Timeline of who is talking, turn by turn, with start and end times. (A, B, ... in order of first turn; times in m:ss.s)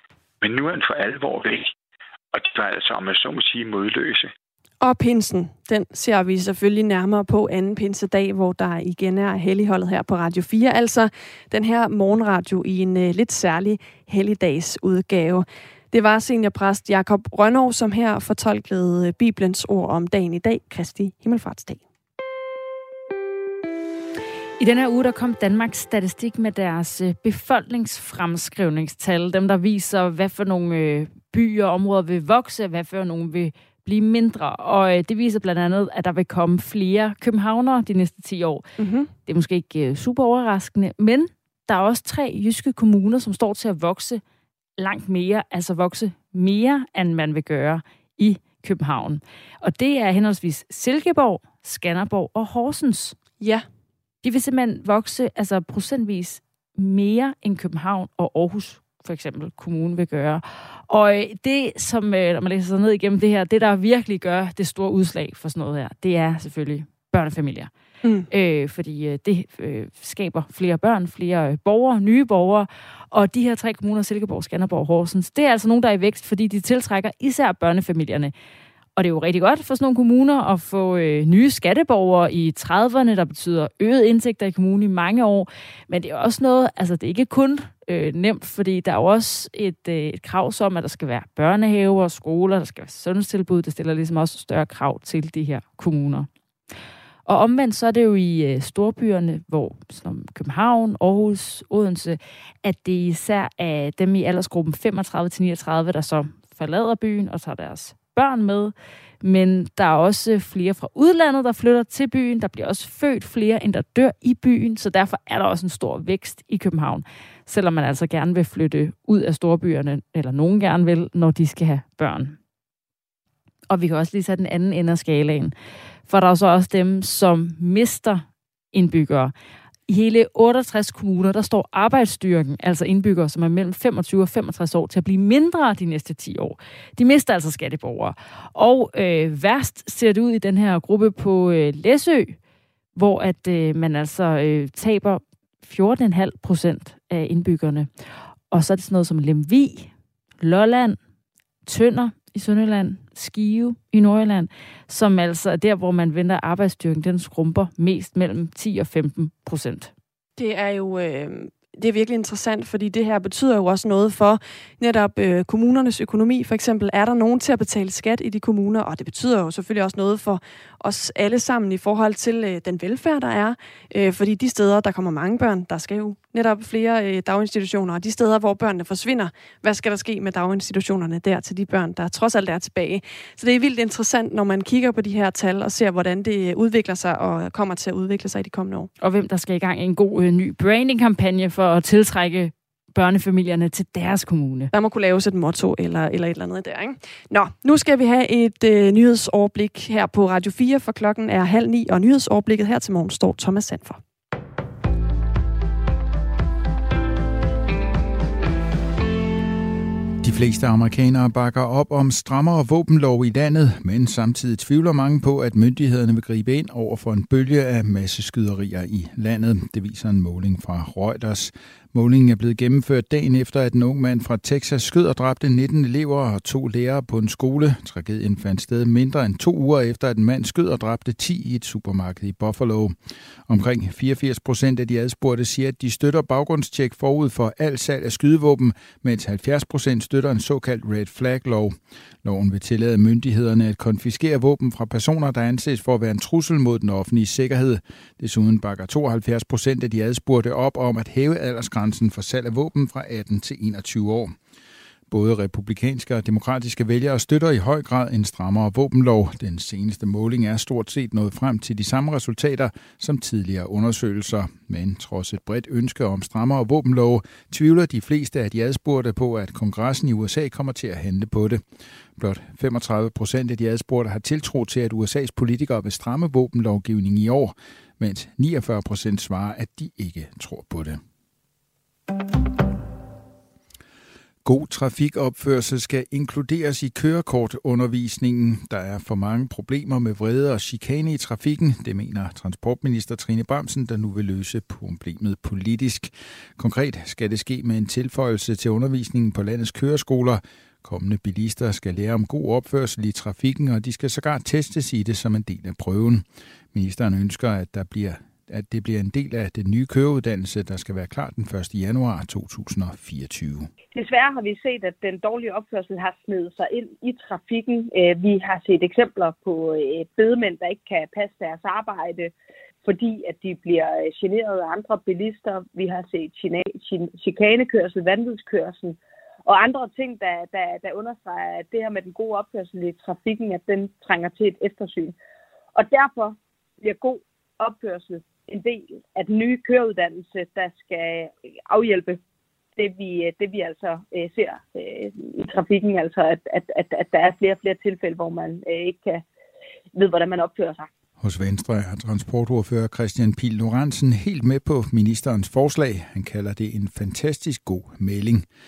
0:00.4-0:01.7 A
0:02.3-0:04.3 A
0:04.8-0:21.8 B
0:24.6-0:38.7 C
0:38.8-0:39.1 B
0:39.3-0:44.2 C
0:44.8-0:53.2 C
0:53.4-0:53.6 B
0:54.2-1:07.7 C
1:08.0-1:08.3 B
1:08.3-1:18.3 C
1:19.0-1:36.3 C
1:37.3-2:02.4 C
2:03.7-2:05.5 C
2:06.1-2:09.3 C
2:09.9-2:22.4 C
2:23.0-2:27.9 C
2:28.5-2:31.0 C
2:31.7-2:39.9 C
2:40.4-3:08.9 B
3:09.0-3:14.7 C
3:14.7-3:24.0 B
3:30.2-3:53.0 D
3:53.5-4:14.4 D
4:15.1-4:31.6 D
4:32.2-4:41.0 D
4:44.4-5:13.7 D
5:13.9-5:22.3 E
5:22.8-5:35.2 E
5:35.8-5:42.2 E
5:42.8-5:49.2 E
5:49.9-5:50.9 E
5:51.2-5:58.5 D